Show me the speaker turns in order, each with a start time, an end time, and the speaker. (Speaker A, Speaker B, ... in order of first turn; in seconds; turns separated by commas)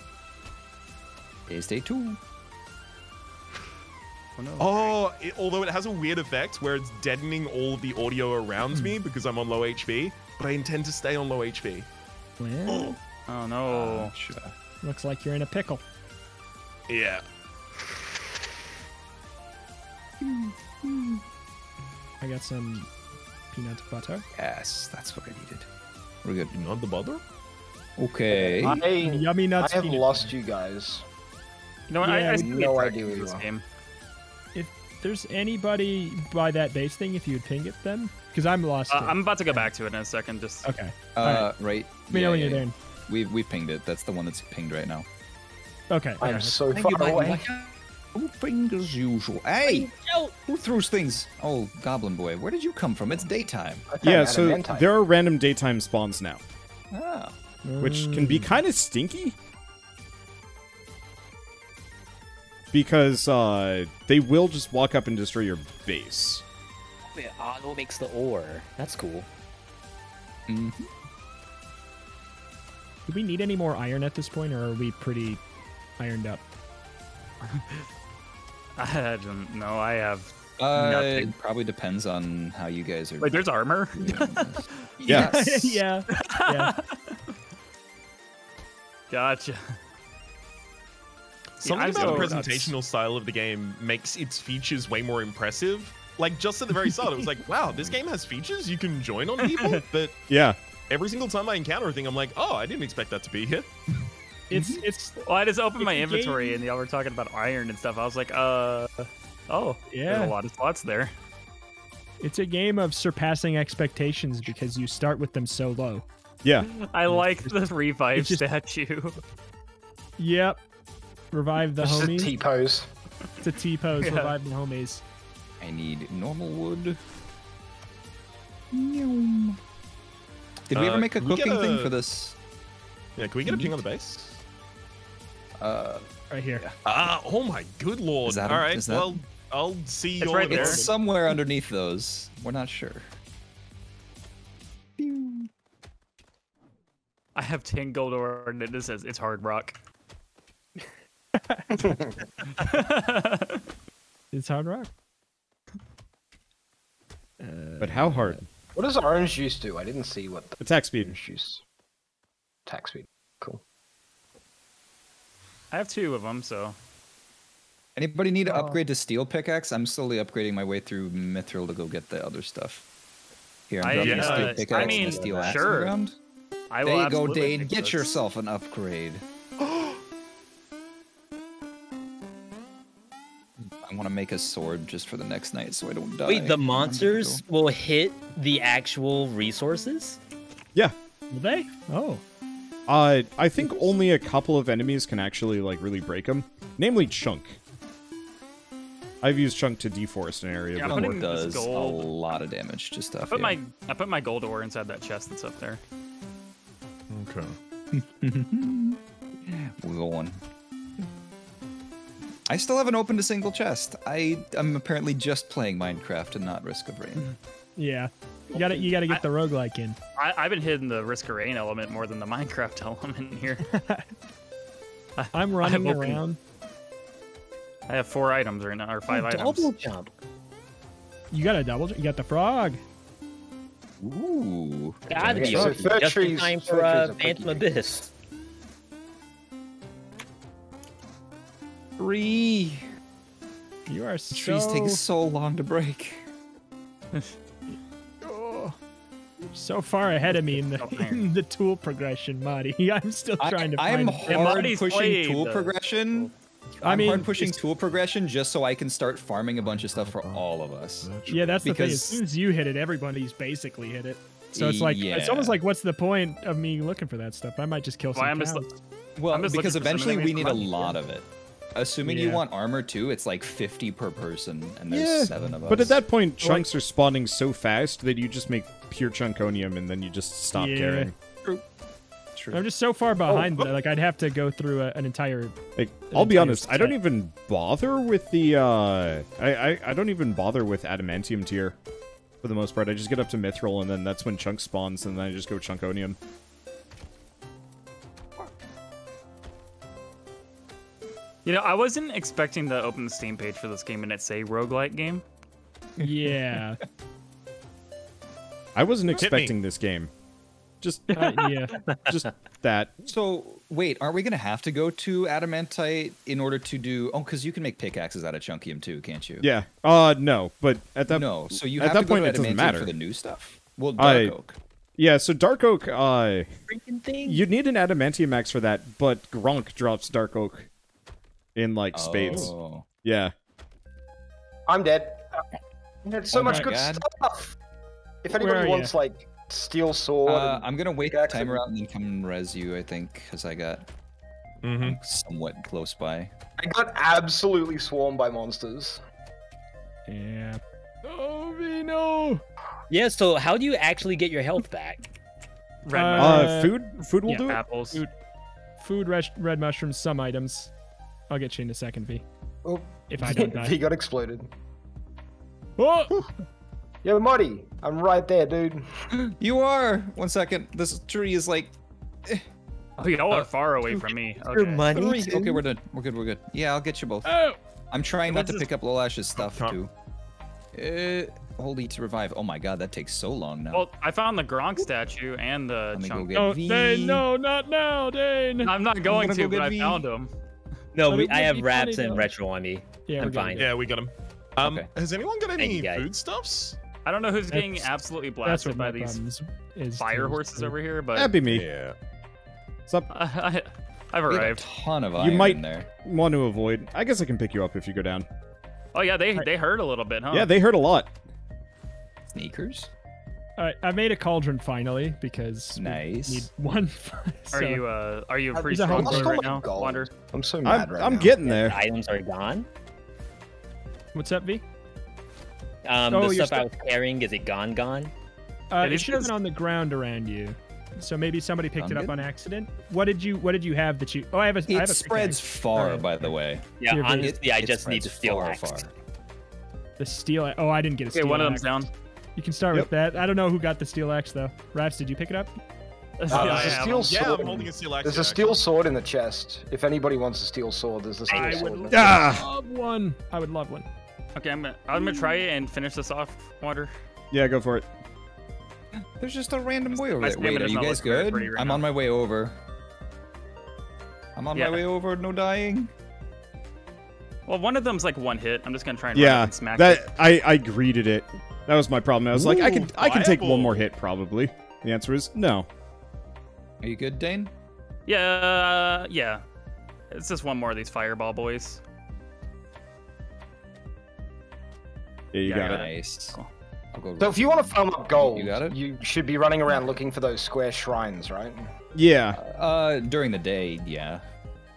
Speaker A: 1.5-2.2, Speaker B: 4.4-5.0, Speaker C: 4.6-11.9, Speaker D: 8.7-9.0, Speaker D: 12.4-13.0, Speaker B: 13.3-14.1, Speaker A: 13.7-14.5, Speaker D: 14.8-15.8, Speaker C: 16.9-17.2, Speaker A: 20.2-21.2, Speaker D: 22.2-22.9, Speaker D: 23.5-24.3, Speaker A: 24.4-25.7, Speaker A: 26.2-26.6, Speaker C: 26.5-27.2, Speaker A: 28.0-28.8, Speaker E: 28.3-31.1, Speaker D: 28.6-30.3, Speaker B: 31.9-33.6, Speaker D: 32.0-32.5, Speaker E: 32.3-33.5, Speaker D: 34.5-39.7, Speaker B: 38.9-40.7, Speaker D: 40.6-42.8, Speaker A: 41.1-45.1, Speaker D: 45.9-46.6, Speaker E: 46.2-47.4, Speaker A: 46.7-49.9, Speaker F: 46.9-47.5, Speaker F: 49.6-50.4, Speaker A: 50.5-53.9, Speaker E: 53.9-54.9, Speaker G: 54.0-56.4, Speaker A: 56.9-57.4, Speaker D: 57.6-58.5, Speaker G: 57.8-59.4, Speaker G: 62.7-66.4, Speaker F: 67.1-69.3, Speaker A: 70.5-70.9, Speaker D: 73.1-75.4, Speaker D: 76.0-76.4, Speaker B: 77.5-77.8, Speaker B: 78.8-81.3, Speaker A: 80.6-85.8, Speaker B: 83.2-84.7, Speaker D: 85.1-86.7, Speaker B: 86.2-87.2, Speaker B: 89.1-89.8, Speaker C: 91.6-100.2, Speaker B: 91.6-92.7, Speaker D: 92.0-92.3, Speaker A: 92.0-92.3, Speaker A: 97.7-98.0, Speaker B: 99.4-99.8, Speaker G: 100.3-100.6, Speaker C: 100.9-103.7, Speaker D: 104.5-105.2, Speaker A: 104.5-104.8, Speaker B: 105.2-111.1, Speaker D: 105.8-106.6, Speaker D: 109.9-110.3, Speaker D: 112.2-116.0, Speaker B: 116.7-119.2, Speaker D: 117.1-117.6, Speaker D: 118.1-118.4, Speaker D: 120.2-120.6, Speaker D: 121.3-122.4, Speaker E: 121.8-122.9, Speaker D: 123.4-125.0, Speaker B: 124.0-124.3, Speaker A: 125.6-127.0, Speaker A: 128.7-129.6, Speaker A: 130.7-132.4, Speaker C: 130.7-131.9, Speaker C: 133.2-134.4, Speaker A: 133.5-133.8, Speaker A: 135.6-136.8, Speaker D: 136.3-136.6, Speaker C: 136.8-141.0, Speaker A: 138.2-139.2, Speaker B: 140.2-140.8, Speaker A: 140.4-143.1, Speaker A: 145.0-145.5, Speaker B: 147.4-149.8, Speaker D: 151.3-151.9, Speaker B: 152.6-153.6, Speaker D: 154.3-154.9, Speaker D: 157.4-158.4, Speaker G: 157.8-158.4, Speaker E: 158.8-161.6, Speaker G: 160.6-161.2, Speaker E: 162.7-163.6, Speaker B: 165.7-166.8, Speaker A: 168.0-172.8, Speaker A: 173.7-176.2, Speaker B: 173.8-176.0, Speaker C: 173.9-174.7, Speaker F: 174.7-175.6, Speaker B: 176.7-178.1, Speaker A: 176.8-179.2, Speaker C: 179.6-180.0, Speaker A: 183.8-187.4, Speaker F: 186.2-190.2, Speaker D: 191.3-192.2, Speaker G: 192.9-197.6, Speaker G: 199.2-201.2, Speaker B: 200.8-202.1, Speaker A: 200.8-203.6, Speaker B: 203.3-205.8, Speaker C: 207.1-207.6, Speaker A: 207.9-210.4, Speaker A: 212.5-217.3, Speaker D: 217.8-220.0, Speaker B: 218.5-219.2, Speaker B: 220.2-223.7, Speaker D: 223.7-224.1, Speaker B: 225.2-226.2, Speaker D: 225.3-226.4, Speaker B: 227.9-229.7, Speaker F: 229.1-230.1, Speaker D: 231.3-232.8, Speaker A: 234.0-235.8, Speaker F: 235.1-238.1, Speaker E: 235.3-237.7, Speaker A: 242.0-242.9, Speaker D: 243.9-245.0, Speaker A: 244.3-246.2, Speaker D: 248.2-248.8, Speaker D: 249.5-254.7, Speaker B: 250.8-251.3, Speaker A: 253.4-256.3, Speaker B: 254.3-256.3, Speaker D: 256.8-257.6, Speaker A: 256.8-261.1, Speaker C: 259.6-260.5, Speaker C: 261.0-261.7, Speaker D: 261.3-268.8, Speaker A: 261.6-262.2, Speaker A: 264.5-265.6, Speaker B: 268.1-268.7, Speaker A: 269.2-276.0, Speaker B: 269.3-270.9, Speaker D: 272.0-272.4, Speaker G: 274.9-281.1, Speaker D: 276.4-276.7, Speaker D: 280.6-281.1, Speaker A: 282.4-282.7, Speaker D: 282.5-285.6, Speaker A: 283.3-283.7, Speaker G: 285.8-291.8, Speaker D: 286.1-287.0, Speaker G: 292.4-296.2, Speaker B: 301.4-305.2, Speaker D: 306.0-306.8, Speaker A: 306.0-306.6, Speaker G: 308.8-310.1, Speaker C: 309.1-309.6, Speaker G: 310.8-311.1, Speaker D: 311.2-311.7, Speaker F: 311.9-312.2, Speaker G: 312.1-312.9, Speaker A: 313.0-319.5, Speaker G: 319.4-322.9, Speaker A: 321.1-324.6, Speaker G: 324.0-324.4, Speaker G: 325.0-326.5, Speaker F: 326.7-327.4, Speaker G: 327.2-330.7, Speaker G: 331.6-333.3, Speaker A: 331.9-332.9, Speaker E: 334.7-337.5, Speaker A: 336.3-337.1, Speaker E: 338.2-341.6, Speaker D: 338.3-338.9, Speaker A: 340.2-343.9, Speaker C: 344.6-345.0, Speaker A: 344.8-346.3, Speaker E: 346.6-349.0, Speaker D: 350.1-352.4, Speaker F: 352.9-355.1, Speaker B: 355.9-356.6, Speaker D: 355.9-356.8, Speaker G: 356.2-357.6, Speaker D: 357.3-358.1, Speaker B: 357.4-358.0, Speaker D: 358.8-360.7, Speaker D: 361.3-362.2, Speaker E: 362.6-364.5, Speaker D: 363.1-363.8, Speaker D: 365.8-366.1, Speaker E: 367.0-368.9, Speaker A: 369.3-371.7, Speaker B: 373.0-374.9, Speaker A: 373.3-374.2, Speaker F: 374.4-375.6, Speaker A: 374.9-377.3, Speaker D: 377.2-377.6, Speaker A: 377.9-379.9, Speaker B: 378.3-378.7, Speaker C: 379.4-379.8, Speaker A: 380.7-383.9, Speaker B: 383.7-386.3, Speaker A: 385.9-387.3, Speaker D: 386.3-388.7, Speaker B: 388.6-390.3, Speaker A: 389.0-390.1, Speaker F: 390.9-393.7, Speaker D: 391.1-392.3, Speaker D: 393.1-393.7, Speaker C: 393.6-396.8, Speaker A: 394.6-394.9, Speaker F: 395.6-396.1, Speaker B: 397.1-399.2, Speaker D: 397.5-397.9, Speaker D: 398.4-400.8, Speaker B: 400.0-401.3, Speaker G: 401.1-401.7, Speaker C: 401.4-401.9, Speaker B: 403.1-404.6, Speaker A: 404.3-405.9, Speaker G: 405.2-408.3, Speaker B: 408.9-410.5, Speaker G: 410.3-411.1, Speaker A: 412.3-412.9, Speaker D: 413.6-417.8, Speaker A: 415.8-416.5, Speaker B: 417.5-420.1, Speaker D: 418.6-419.4, Speaker E: 418.7-421.4, Speaker G: 420.6-421.8, Speaker F: 421.4-422.7, Speaker D: 424.1-424.6, Speaker F: 425.8-428.1, Speaker D: 426.1-426.7, Speaker D: 428.7-436.3, Speaker B: 428.8-429.3, Speaker A: 431.8-432.2, Speaker A: 434.7-438.9, Speaker F: 436.8-438.9, Speaker D: 436.9-437.4, Speaker D: 440.0-441.7, Speaker B: 441.1-441.9, Speaker D: 442.4-445.6, Speaker B: 446.2-447.1, Speaker E: 446.3-452.3, Speaker C: 446.3-448.6, Speaker D: 451.3-453.9, Speaker F: 451.4-451.6, Speaker G: 451.9-452.4, Speaker B: 454.4-456.9, Speaker G: 457.3-457.9, Speaker A: 458.9-462.6, Speaker B: 459.9-461.9, Speaker A: 464.4-465.9, Speaker B: 464.5-464.9, Speaker B: 467.5-470.1, Speaker G: 469.1-475.7, Speaker C: 472.4-473.9, Speaker A: 476.8-477.5, Speaker B: 478.1-479.4, Speaker B: 480.1-481.8, Speaker G: 485.3-485.9, Speaker B: 485.4-486.5, Speaker A: 485.5-486.4, Speaker A: 486.9-488.8, Speaker E: 487.2-491.7, Speaker G: 491.9-492.4, Speaker A: 492.3-494.2